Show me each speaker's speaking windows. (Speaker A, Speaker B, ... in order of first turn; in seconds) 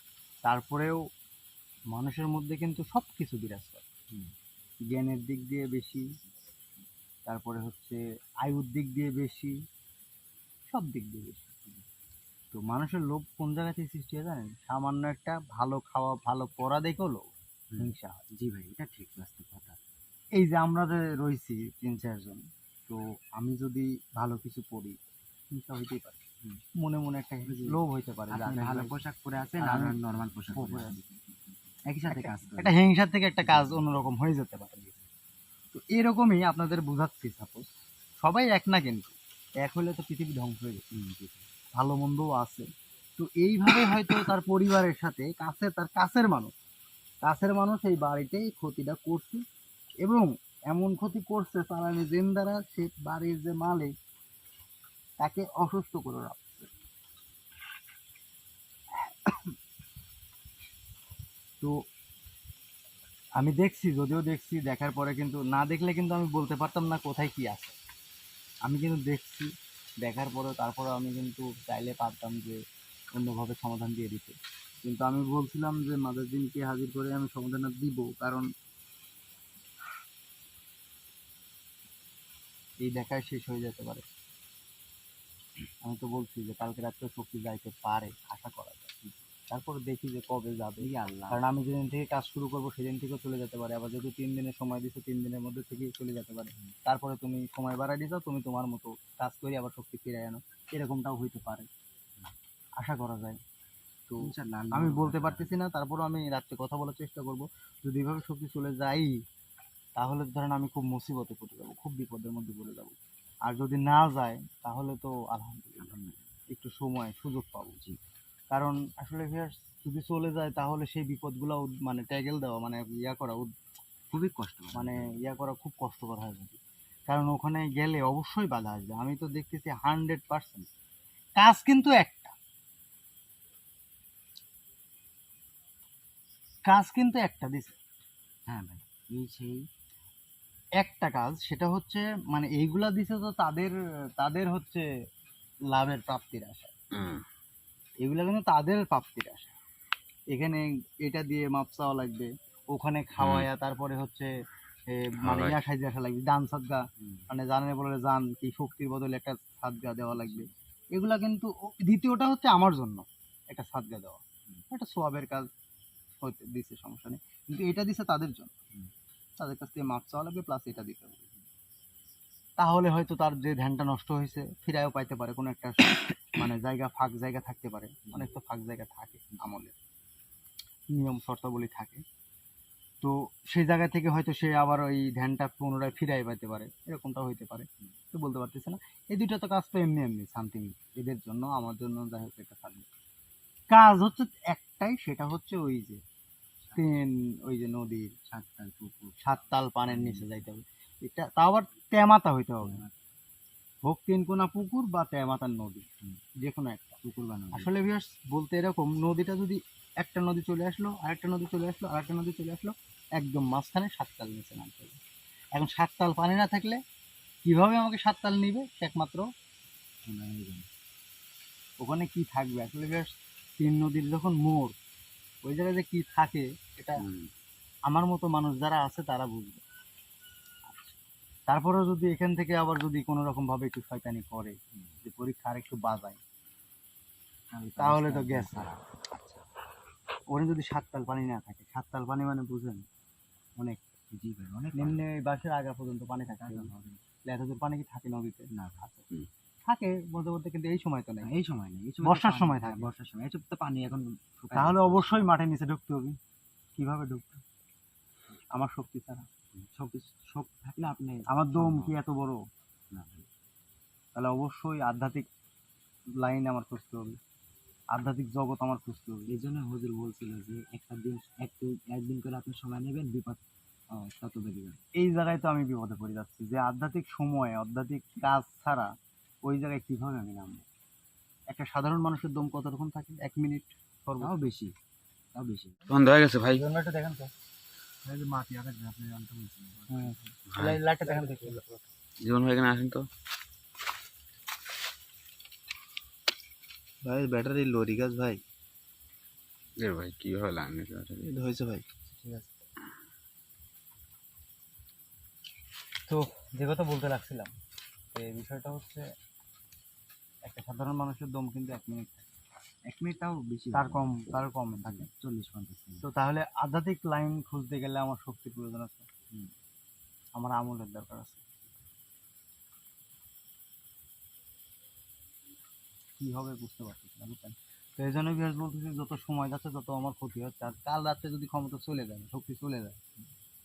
Speaker A: 0.5-1.0, 1.9-3.9, 4.9-6.1, 7.3-9.6, 10.7-11.6, 12.5-18.2, 20.4-25.0, 25.5-26.2, 26.8-29.0, 29.6-30.0, 30.5-31.0, 32.1-35.0, 35.7-37.7, 38.2-40.8, 41.8-46.5, 47.2-49.4, 50.0-53.9, 55.2-56.7, 59.3-59.5, 63.4-67.8, 68.7-69.5, 70.0-72.6, 73.1-78.5, 82.8-84.0, 85.8-89.0, 89.5-101.7, 102.8-103.4, 104.1-109.2, 110.0-115.9, 116.5-117.8, 118.5-123.5, 124.7-130.7, 131.4-132.3, 136.7-137.8, 140.8-144.9, 145.7-146.7, 148.0-149.5, 150.3-154.3, 154.9-165.5, 166.2-168.6, 169.4-171.3, 172.6-179.8, 180.9-182.0, 183.0-192.9, 193.7-196.0, 196.8-198.1, 199.2-202.8, 203.8-205.9, 206.4-207.0, 207.5-215.0, 215.5-216.8, 217.4-219.3, 221.8-224.7, 225.4-227.0, 227.9-229.6, 231.5-236.2, 237.8-238.7, 240.3-242.8, 244.7-246.7, 247.2-249.0, 249.7-251.3, 252.0-252.9, 254.5-256.2, 256.8-257.4, 258.5-259.3, 261.3-262.4, 264.1-265.2, 266.2-267.2, 267.9-269.3, 275.0-278.9, 279.4-280.6, 281.5-284.4, 286.5-287.3, 289.9-291.6, 302.1-302.5, 306.1-307.5, 308.1-309.1, 310.4-312.3, 313.7-315.1, 316.0-319.1, 320.4-321.5, 326.2-333.0
Speaker B: 17.7-19.8, 27.5-31.1, 31.9-32.8, 33.5-33.8, 40.9-41.5, 90.8-91.4, 104.2-105.5, 115.8-116.2, 124.1-125.2, 138.5-139.7, 157.0-157.3, 160.1-160.5, 196.6-196.9, 198.3-200.4, 202.6-202.9, 207.0-207.8, 220.1-220.7, 237.5-239.5, 244.1-245.0, 246.3-247.0, 248.5-248.9, 251.2-255.3, 259.6-262.0, 262.9-263.3, 269.3-274.8, 284.2-284.7, 285.3-285.9, 312.9-316.1
Speaker C: 146.9-147.2, 153.2-153.5, 155.2-155.6, 227.0-227.3, 285.9-286.6, 290.5-290.8, 292.2-293.1, 299.8-301.3
Speaker D: 288.1-289.6, 297.1-298.3, 301.3-301.8